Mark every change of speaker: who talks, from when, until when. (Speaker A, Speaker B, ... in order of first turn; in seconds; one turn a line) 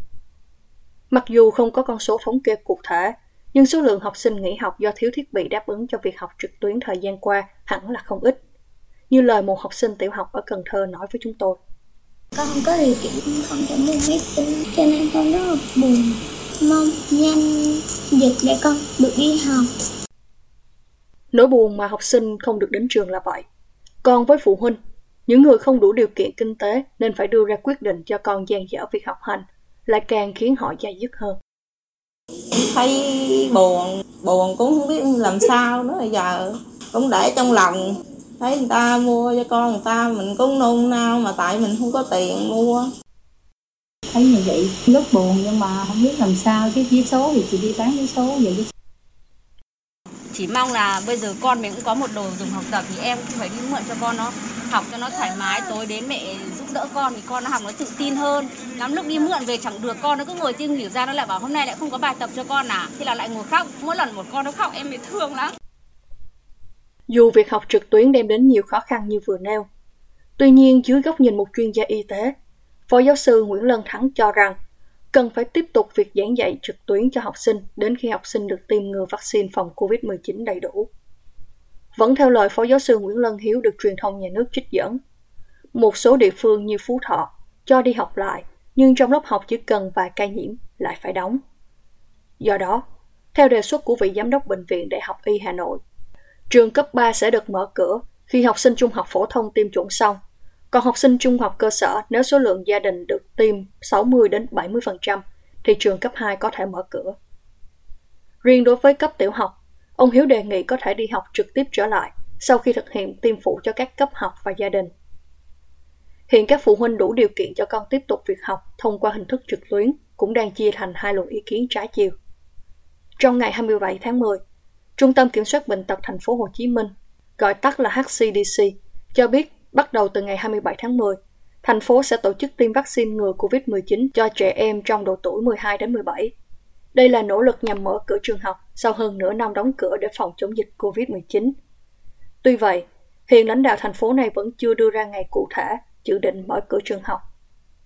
Speaker A: 1.1-8.4
Speaker A: 9.1-11.6
Speaker B: 12.4-19.7
Speaker A: 21.3-23.5
Speaker A: 24.0-31.4
Speaker C: 32.6-37.8
Speaker C: 38.4-42.9
Speaker D: 44.1-48.7
Speaker E: 50.3-65.5
Speaker A: 67.1-69.7
Speaker A: 70.4-72.3
Speaker A: 72.9-74.6
Speaker A: 75.1-80.9
Speaker A: 82.0-85.0
Speaker A: 85.7-91.4
Speaker A: 92.4-92.8
Speaker A: 93.3-95.8
Speaker A: 96.5-100.2
Speaker A: 100.7-107.2
Speaker A: 108.4-114.9
Speaker A: 116.3-122.1
Speaker A: 123.2-124.4
Speaker A: 125.0-136.3
Speaker A: 136.9-141.6
Speaker A: 142.4-147.2